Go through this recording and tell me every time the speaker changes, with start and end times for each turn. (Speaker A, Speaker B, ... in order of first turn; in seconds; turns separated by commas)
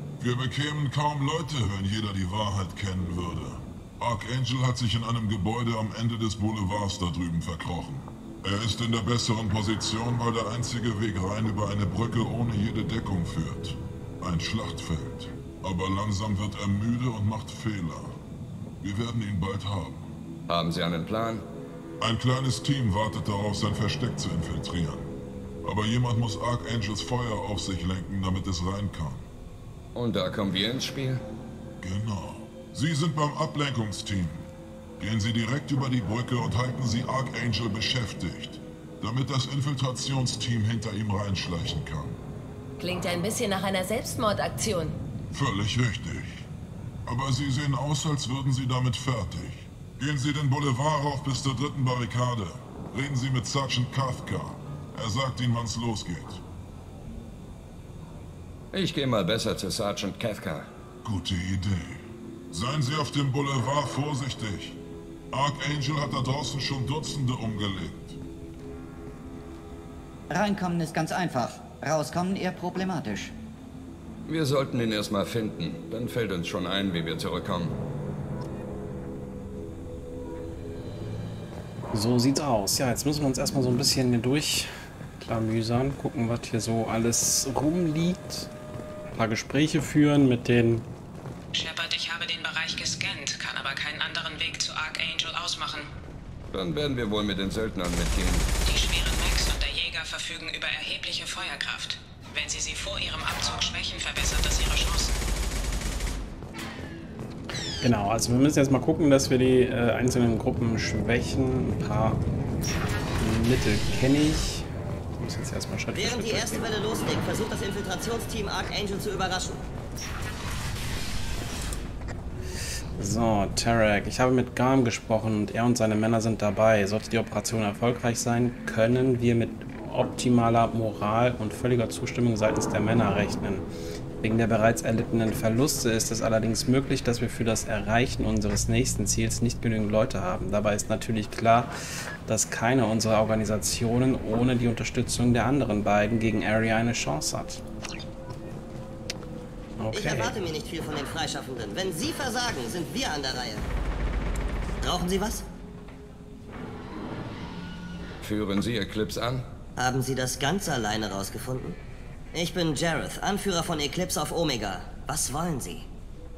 Speaker A: 0.2-18.2, Speaker A: 18.8-20.0, Speaker B: 20.5-21.4, Speaker A: 22.0-25.1, Speaker A: 25.6-29.3, Speaker B: 29.9-31.2, Speaker A: 31.8-34.5, Speaker A: 35.0-42.2, Speaker C: 42.8-45.0, Speaker A: 45.3-46.5, Speaker A: 47.1-56.4, Speaker B: 58.7-60.7, Speaker A: 61.0-64.8, Speaker A: 65.3-68.1, Speaker D: 70.3-73.3, Speaker B: 74.3-77.7, Speaker E: 81.9-88.5, Speaker E: 89.1-90.9, Speaker F: 91.5-95.9, Speaker B: 96.5-98.5, Speaker F: 98.7-105.2, Speaker E: 107.8-112.2, Speaker E: 113.2-116.7, Speaker G: 115.9-119.6, Speaker E: 123.0-133.7, Speaker E: 134.2-141.7, Speaker E: 142.3-147.6, Speaker E: 149.8-150.3, Speaker G: 149.9-153.7, Speaker G: 154.8-155.4, Speaker B: 158.2-159.5, Speaker G: 159.8-161.8, Speaker G: 162.3-165.9